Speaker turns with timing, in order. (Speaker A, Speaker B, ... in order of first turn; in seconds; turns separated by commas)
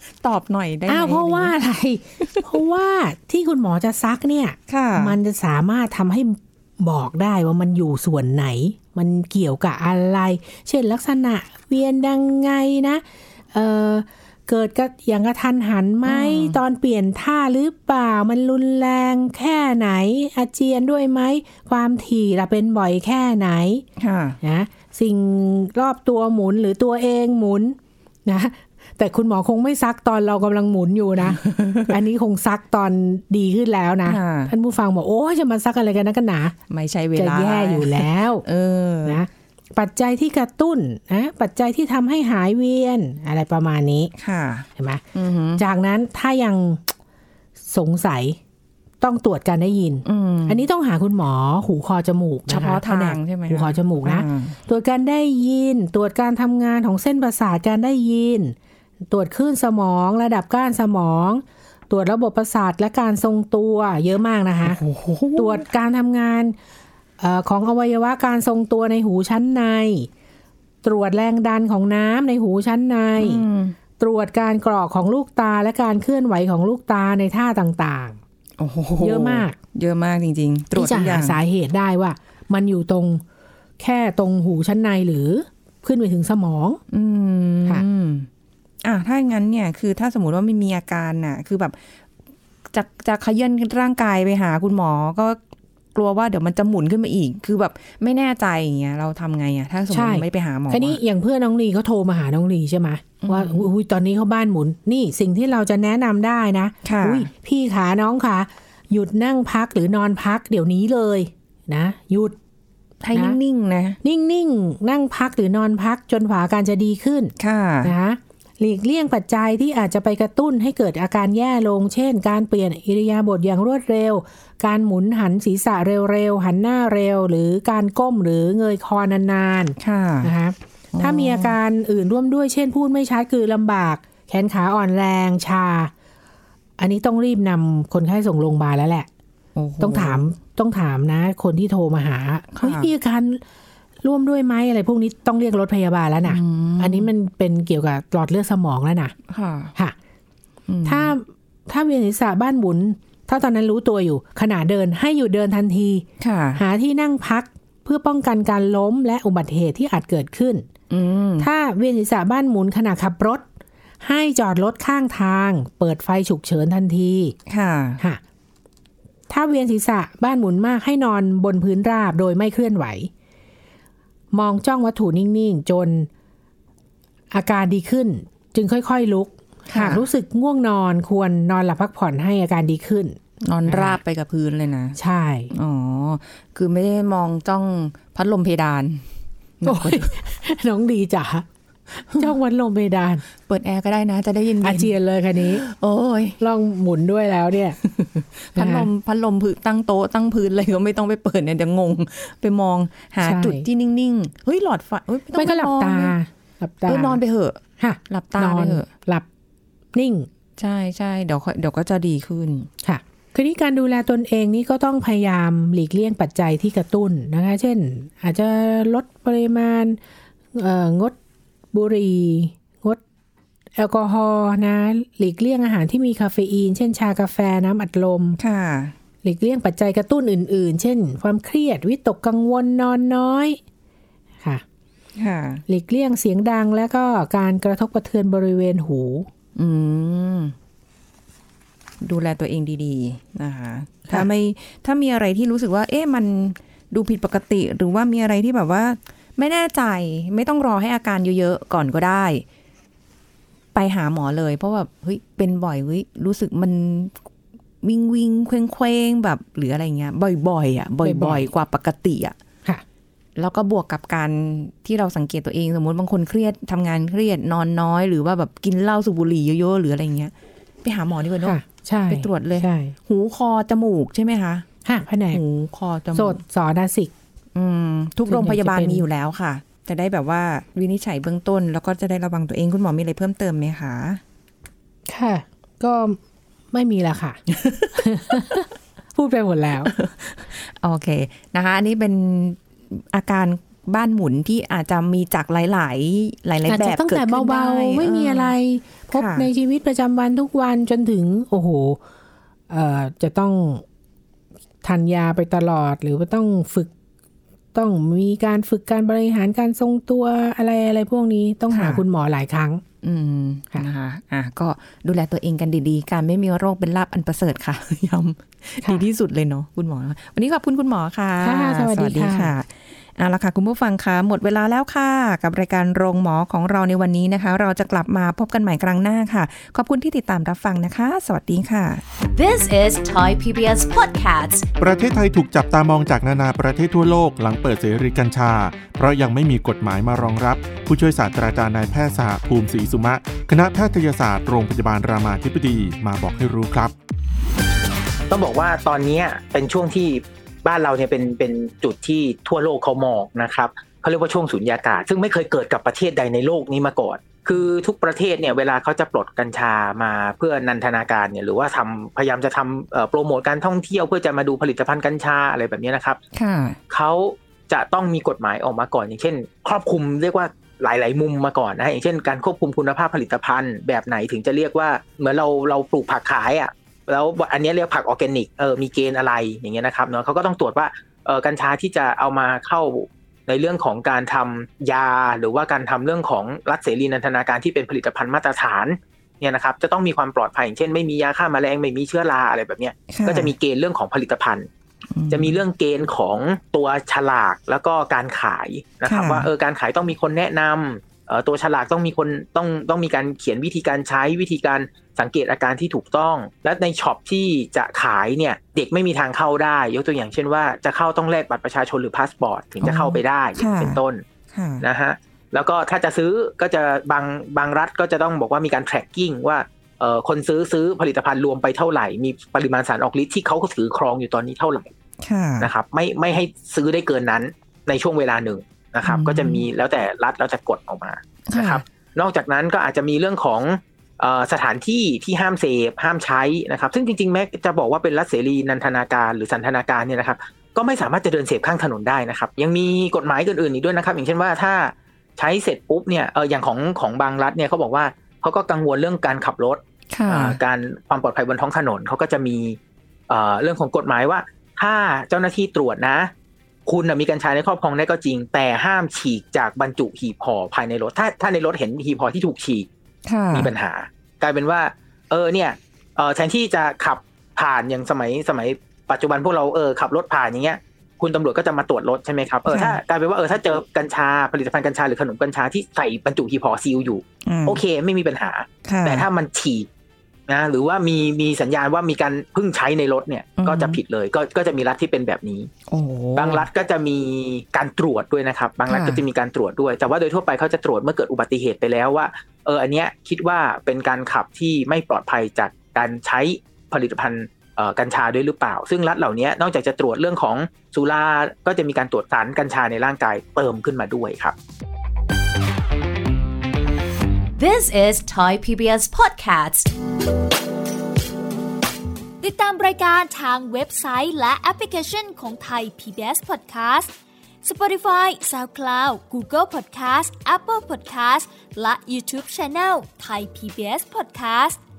Speaker A: 0.2-1.5, Speaker B: 0.9-23.9, Speaker A: 4.7-5.2, Speaker A: 16.1-16.6, Speaker A: 24.0-24.4, Speaker B: 24.4-36.6, Speaker A: 31.4-31.9, Speaker A: 34.1-34.5, Speaker A: 36.7-39.2, Speaker B: 37.1-38.5, Speaker B: 39.0-44.1, Speaker A: 44.2-45.6, Speaker B: 44.8-45.0, Speaker B: 45.6-46.8, Speaker B: 47.6-48.4, Speaker B: 49.0-58.5, Speaker A: 50.0-50.6, Speaker A: 52.5-54.6, Speaker B: 59.1-64.8, Speaker A: 64.7-65.7, Speaker B: 65.4-66.6, Speaker B: 67.2-70.1, Speaker B: 70.8-73.5, Speaker A: 73.2-73.8, Speaker B: 74.0-78.2, Speaker A: 78.6-81.4, Speaker B: 79.0-79.6, Speaker B: 80.8-83.2, Speaker B: 83.8-86.8, Speaker A: 86.9-88.3, Speaker A: 88.8-91.8, Speaker A: 92.7-95.4, Speaker A: 96.0-101.0, Speaker B: 99.9-112.4, Speaker A: 103.2-103.7, Speaker A: 106.8-107.3, Speaker A: 113.0-114.0, Speaker B: 114.0-135.9, Speaker A: 117.4-117.9, Speaker A: 129.8-130.3, Speaker A: 130.9-131.6, Speaker B: 136.8-139.1, Speaker A: 139.6-140.2, Speaker B: 139.8-143.4, Speaker A: 142.5-142.9, Speaker B: 144.0-149.2, Speaker A: 146.2-147.1, Speaker A: 149.3-149.8, Speaker A: 150.7-151.1, Speaker B: 150.8-160.7, Speaker A: 156.2-156.6, Speaker A: 160.9-161.5, Speaker B: 161.4-163.5, Speaker B: 164.0-167.3, Speaker A: 167.5-168.0, Speaker B: 169.3-173.1, Speaker B: 174.3-176.1, Speaker B: 177.3-184.0, Speaker A: 179.7-180.0, Speaker A: 183.4-185.0, Speaker B: 185.0-185.5, Speaker A: 185.5-189.1, Speaker A: 189.6-190.2, Speaker B: 189.6-193.2, Speaker A: 193.4-196.4, Speaker B: 194.6-195.6, Speaker B: 196.4-197.8, Speaker A: 197.8-206.2, Speaker B: 198.6-198.9, Speaker B: 203.2-203.7, Speaker B: 205.3-207.2, Speaker A: 206.9-208.9, Speaker B: 207.8-209.3, Speaker B: 209.9-210.3, Speaker A: 210.6-212.7, Speaker B: 212.8-220.0, Speaker B: 220.6-221.2, Speaker B: 221.7-223.0, Speaker B: 223.8-228.4, Speaker A: 228.4-228.9, Speaker B: 229.2-233.6, Speaker A: 235.2-235.6, Speaker B: 235.7-239.3, Speaker A: 239.6-240.6, Speaker A: 242.0-252.4, Speaker A: 253.8-257.1, Speaker A: 257.8-262.4, Speaker B: 261.0-261.5, Speaker A: 263.4-270.3, Speaker A: 270.8-271.6, Speaker B: 271.4-272.9, Speaker A: 272.1-274.7, Speaker B: 274.9-275.4, Speaker A: 275.3-276.4, Speaker B: 276.1-277.1, Speaker A: 277.6-284.2, Speaker B: 278.3-279.0, Speaker B: 285.1-286.2, Speaker B: 286.7-287.4, Speaker A: 287.6-288.0, Speaker B: 287.9-289.9, Speaker A: 289.9-298.6, Speaker B: 296.7-302.0, Speaker A: 299.1-299.5, Speaker B: 302.7-303.8, Speaker B: 304.8-306.9, Speaker B: 307.7-312.8, Speaker A: 311.7-312.0, Speaker A: 313.0-332.0, Speaker B: 321.4-322.5, Speaker C: 332.4-334.7, Speaker D: 334.8-346.9, Speaker E: 348.3-366.2, Speaker A: 366.3-366.8, Speaker E: 366.9-394.7, Speaker A: 393.1-393.5, Speaker A: 395.1-395.6, Speaker E: 395.3-414.2, Speaker A: 399.1-399.5, Speaker A: 412.8-414.0, Speaker A: 414.5-414.9, Speaker E: 414.8-424.9, Speaker A: 425.2-425.7, Speaker E: 425.6-452.8, Speaker A: 429.0-429.6, Speaker A: 431.5-431.8, Speaker A: 450.1-450.6, Speaker E: 453.3-456.3, Speaker E: 456.9-462.9, Speaker A: 463.3-463.7, Speaker E: 463.5-479.9, Speaker A: 472.7-473.0, Speaker A: 477.5-477.8, Speaker A: 478.9-479.3, Speaker E: 480.5-485.7, Speaker A: 483.6-484.0, Speaker A: 485.9-486.7, Speaker E: 486.4-504.6, Speaker A: 488.9-489.2, Speaker C: 507.6-509.9, Speaker F: 512.4-517.1, Speaker F: 517.6-524.8